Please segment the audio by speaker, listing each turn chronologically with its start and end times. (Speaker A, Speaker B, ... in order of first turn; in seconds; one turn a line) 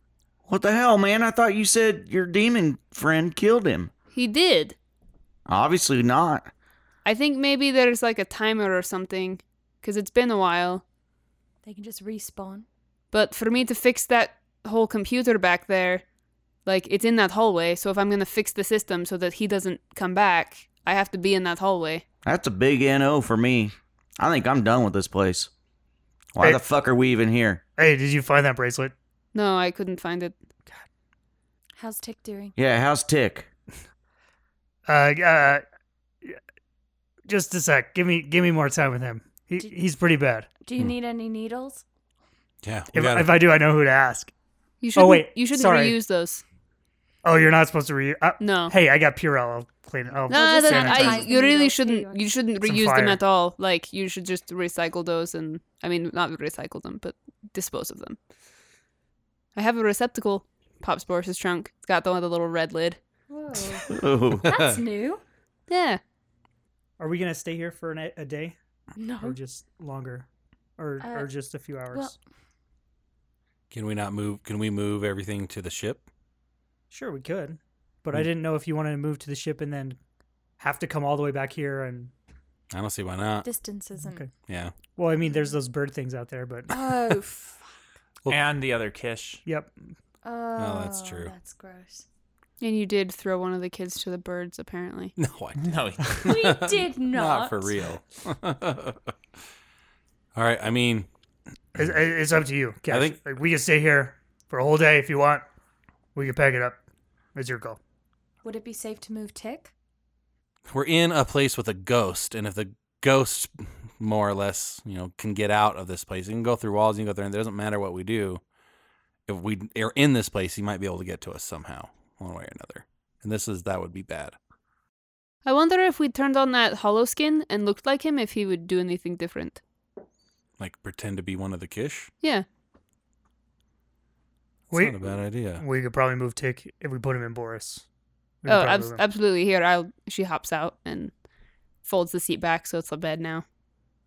Speaker A: 0.5-3.9
Speaker B: 4.1-4.8
Speaker A: 5.5-6.5
Speaker B: 7.0-10.8
Speaker C: 11.6-12.7
Speaker B: 13.1-16.0
Speaker B: 16.6-22.0
Speaker A: 22.2-25.5
Speaker A: 26.3-27.6
Speaker D: 27.8-28.9
Speaker B: 29.3-30.3
Speaker C: 31.8-32.5
Speaker A: 32.5-33.5
Speaker D: 34.9-35.6
Speaker D: 37.3-40.5
Speaker C: 40.6-41.8
Speaker E: 42.6-43.4
Speaker D: 42.9-44.3
Speaker B: 44.8-46.4
Speaker D: 44.9-46.0
Speaker D: 47.2-51.3
Speaker B: 48.4-48.7
Speaker B: 50.3-58.2
Speaker C: 50.3-52.2
Speaker D: 52.6-53.2
Speaker B: 59.5-63.0
Speaker C: 63.3-65.2
Speaker A: 63.9-64.5
Speaker E: 64.4-64.8
Speaker B: 65.7-66.0
Speaker D: 67.0-68.5
Speaker C: 69.0-69.4
Speaker D: 69.2-72.1
Speaker C: 71.0-71.3
Speaker C: 71.9-72.2
Speaker E: 73.7-76.0
Speaker D: 76.9-80.0
Speaker D: 80.6-82.1
Speaker E: 82.7-83.5
Speaker C: 83.4-84.2
Speaker D: 84.0-84.3
Speaker E: 84.5-84.7
Speaker D: 84.9-86.8
Speaker C: 86.7-87.7
Speaker F: 88.3-89.4
Speaker D: 89.5-89.8
Speaker C: 90.2-92.0
Speaker E: 90.6-91.3
Speaker B: 92.6-95.1
Speaker E: 95.2-99.1
Speaker F: 95.6-96.3
Speaker C: 96.2-97.7
Speaker E: 100.3-101.1
Speaker D: 101.8-105.4
Speaker E: 102.9-103.2
Speaker D: 106.1-106.8
Speaker D: 107.3-107.8
Speaker C: 108.4-109.7
Speaker E: 110.7-118.4
Speaker E: 119.3-124.3
Speaker B: 125.4-129.6
Speaker E: 130.6-132.1
Speaker E: 134.7-135.6
Speaker D: 134.7-135.0
Speaker D: 135.6-137.8
Speaker D: 138.4-139.0
Speaker B: 138.5-141.1
Speaker B: 141.8-143.4